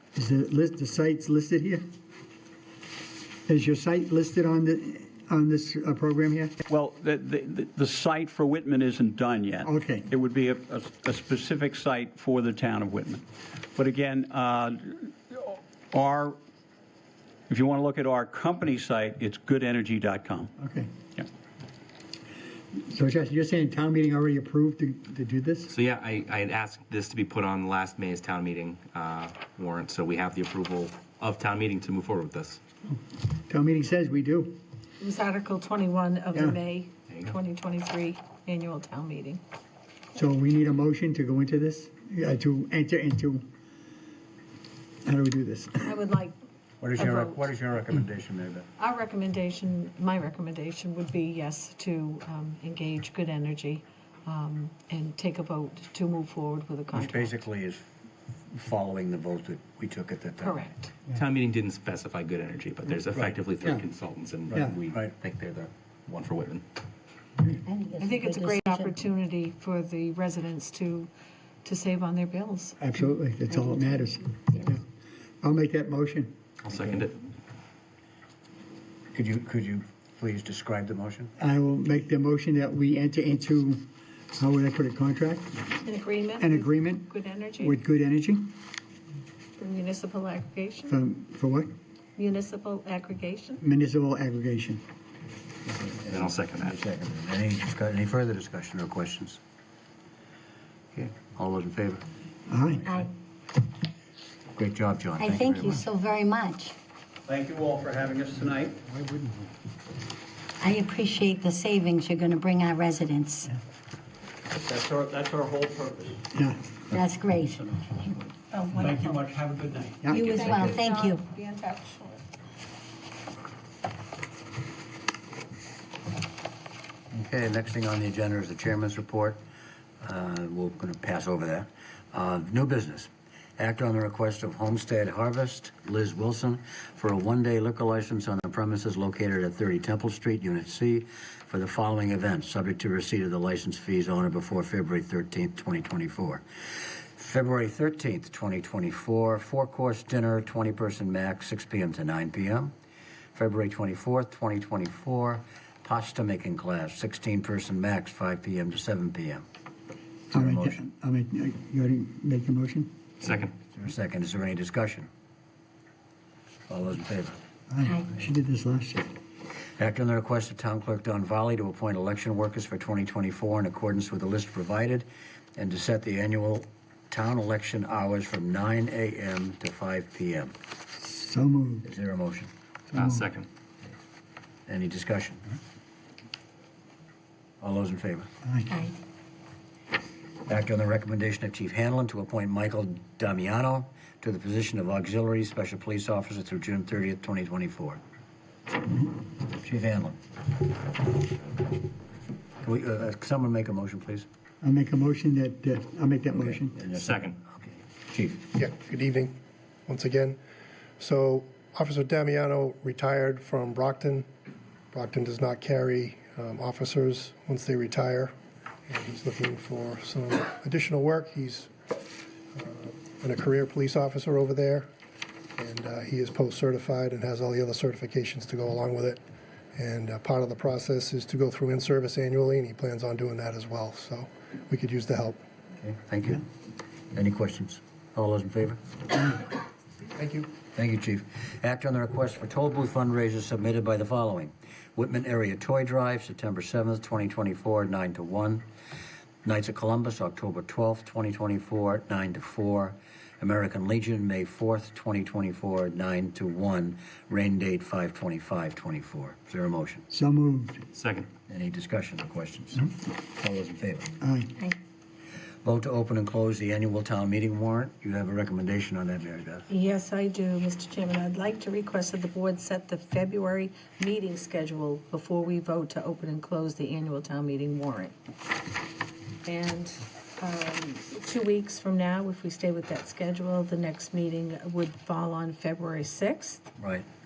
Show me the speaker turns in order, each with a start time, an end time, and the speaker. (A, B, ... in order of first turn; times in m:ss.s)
0:00.2-0:01.8 A
0:03.5-0:06.5 A
0:06.7-0:13.2 B
0:09.6-0:10.1 A
0:13.8-0:16.4 B
0:17.5-0:20.5 B
0:20.6-0:20.9 A
0:22.7-0:25.7 A
0:25.7-0:32.6 C
0:33.5-0:34.6 A
0:35.0-0:39.4 D
0:36.3-0:36.6 A
0:37.1-0:37.4 C
0:40.2-0:43.5 A
0:45.0-0:46.0 A
0:45.8-0:46.3 D
0:46.8-0:48.7 E
0:47.0-0:47.4 D
0:48.8-0:57.4 D
0:56.9-0:57.9 E
0:58.5-1:00.6 E
1:00.4-1:00.9 D
1:01.1-1:05.4 C
1:04.5-1:05.7 E
1:06.1-1:06.6 C
1:07.7-1:08.9 F
1:08.0-1:11.1 D
1:11.6-1:12.8 D
1:12.8-1:14.8 A
1:13.5-1:13.9 F
1:15.4-1:16.4 A
1:16.6-1:17.2 C
1:19.1-1:21.3 E
1:21.4-1:25.6 A
1:25.8-1:27.8 D
1:26.4-1:28.5 A
1:29.6-1:31.0 D
1:30.9-1:31.7 A
1:32.2-1:33.6 D
1:33.6-1:34.8 A
1:35.7-1:39.4 E
1:36.1-1:36.8 C
1:40.9-1:42.0 E
1:42.5-1:42.9 A
1:44.5-1:45.8 E
1:45.2-1:46.8 F
1:47.3-1:48.8 B
1:48.9-1:49.5 A
1:50.6-1:53.5 F
1:54.5-1:56.2 B
1:56.4-1:56.7 A
1:56.9-1:57.7 F
1:58.5-1:59.3 D
1:58.7-2:00.7 B
2:00.0-2:00.4 A
2:00.1-2:02.2 D
2:00.1-2:01.2 F
2:07.1-2:09.4 E
2:10.0-2:26.4 E
2:27.2-2:32.7 E
2:33.4-2:39.4 E
2:40.3-2:43.0 A
2:40.3-2:40.8 E
2:43.2-2:43.5 C
2:43.4-2:45.1 E
2:46.7-2:47.4 E
2:47.7-2:49.1 A
2:49.8-3:00.5 E
3:01.0-3:01.9 A
3:01.8-3:02.5 E
3:02.9-3:03.3 A
3:02.9-3:03.5 C
3:04.7-3:05.4 E
3:07.6-3:08.3 E
3:08.4-3:08.7 A
3:10.5-3:18.0 E
3:19.6-3:20.2 E
3:22.6-3:24.3 E
3:24.6-3:26.7 A
3:26.4-3:28.5 E
3:26.9-3:27.4 C
3:28.6-3:29.3 G
3:29.9-3:30.4 G
3:31.0-3:34.3 G
3:34.9-3:38.3 G
3:38.9-3:41.7 G
3:42.6-3:44.9 G
3:45.6-3:49.2 G
3:49.8-3:55.4 G
3:55.8-3:56.4 E
3:57.1-3:58.8 E
4:00.2-4:00.5 G
4:00.7-4:08.6 E
4:09.4-4:20.0 E
4:20.1-4:20.8 A
4:21.0-4:21.3 C
4:21.5-4:24.2 E
4:24.2-4:24.5 A
4:25.6-4:29.7 E
4:29.7-4:38.2 D
4:39.4-4:46.7 D
4:46.8-4:47.1 E